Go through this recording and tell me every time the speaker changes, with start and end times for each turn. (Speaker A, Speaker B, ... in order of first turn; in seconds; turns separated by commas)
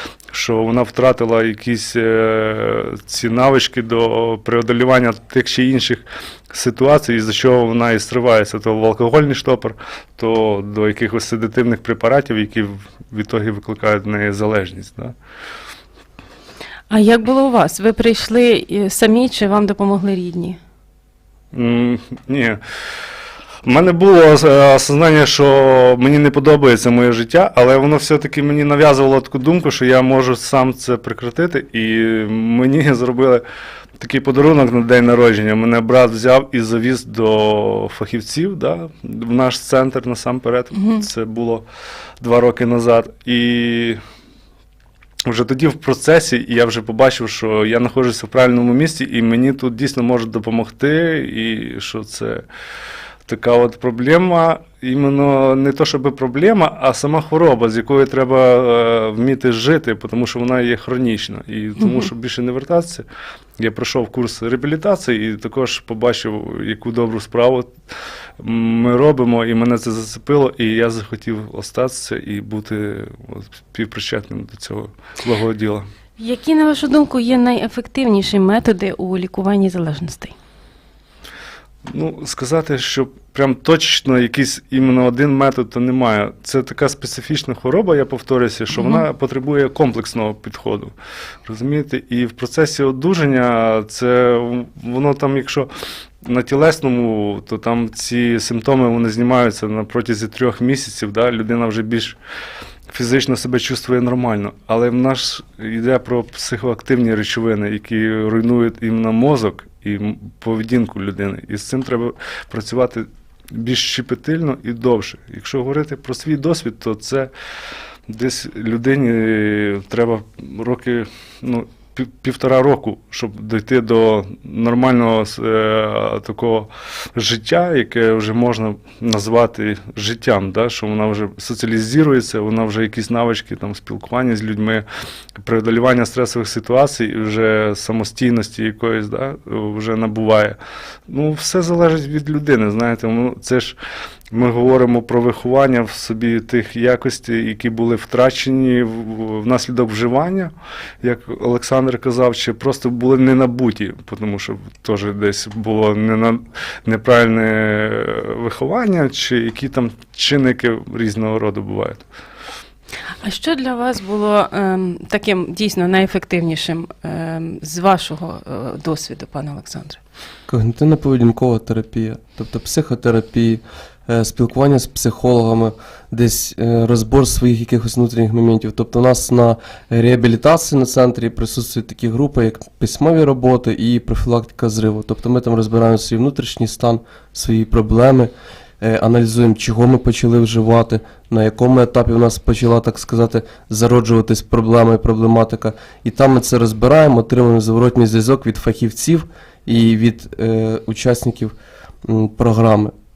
Speaker A: 0.3-15.1, Speaker B: 16.9-20.6, Speaker A: 21.5-22.6, Speaker A: 23.6-33.4, Speaker A: 34.0-41.6, Speaker B: 40.7-41.0, Speaker A: 42.2-44.0, Speaker A: 45.2-52.4, Speaker A: 53.3-63.0, Speaker B: 61.8-62.1, Speaker A: 63.6-67.7, Speaker A: 68.4-75.8, Speaker B: 76.2-80.3, Speaker A: 81.9-90.9, Speaker B: 88.7-89.0, Speaker A: 91.4-95.7, Speaker A: 96.2-102.2, Speaker A: 102.9-117.3, Speaker A: 118.1-134.8, Speaker A: 135.4-140.6, Speaker A: 141.1-143.8, Speaker A: 144.3-162.0, Speaker B: 163.2-170.0, Speaker C: 170.5-202.9